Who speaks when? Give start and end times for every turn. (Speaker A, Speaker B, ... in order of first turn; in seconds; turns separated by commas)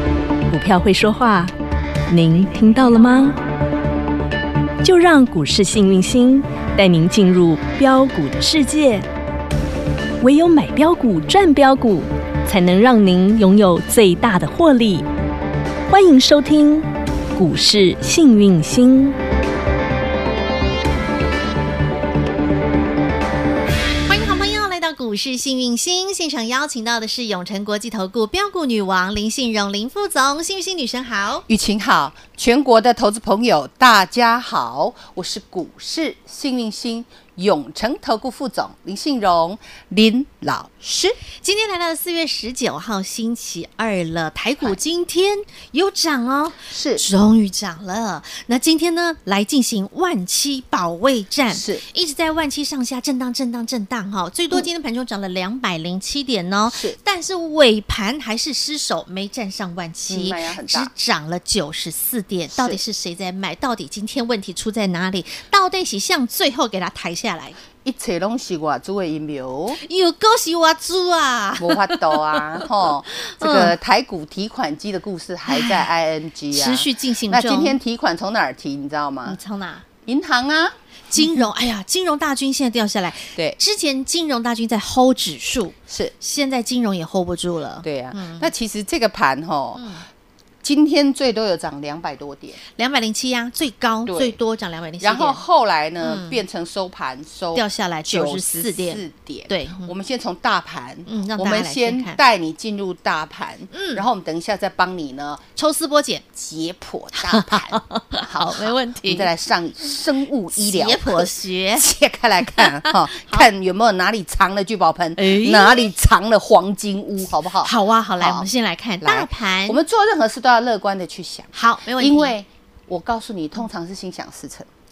Speaker A: 0.5-1.5, Speaker A: 2.1-3.4, Speaker A: 4.8-9.1, Speaker A: 10.2-15.1, Speaker A: 15.9-19.2, Speaker B: 24.1-31.4, Speaker C: 31.5-41.1, Speaker B: 41.0-67.6, Speaker C: 46.7-47.0, Speaker C: 51.5-51.8, Speaker C: 56.7-57.0, Speaker C: 60.1-60.9, Speaker C: 62.5-62.8, Speaker C: 67.8-69.8, Speaker B: 69.8-73.7, Speaker C: 71.6-79.4, Speaker B: 75.5-75.9, Speaker B: 76.5-77.8, Speaker B: 79.2-79.8, Speaker C: 80.0-81.5, Speaker B: 81.1-88.5, Speaker C: 85.9-86.1, Speaker C: 87.8-89.8, Speaker B: 89.8-90.0, Speaker C: 90.6-92.6, Speaker B: 92.8-95.4, Speaker C: 94.1-94.4, Speaker C: 95.0-105.4, Speaker B: 96.0-96.4, Speaker B: 97.5-99.9, Speaker B: 101.1-102.2, Speaker B: 103.7-104.0, Speaker B: 105.6-106.2, Speaker C: 106.3-118.5, Speaker B: 107.2-109.3, Speaker B: 110.5-111.9, Speaker B: 112.6-113.5, Speaker B: 115.2-115.9, Speaker B: 117.6-119.8, Speaker C: 119.0-124.7, Speaker B: 121.5-122.3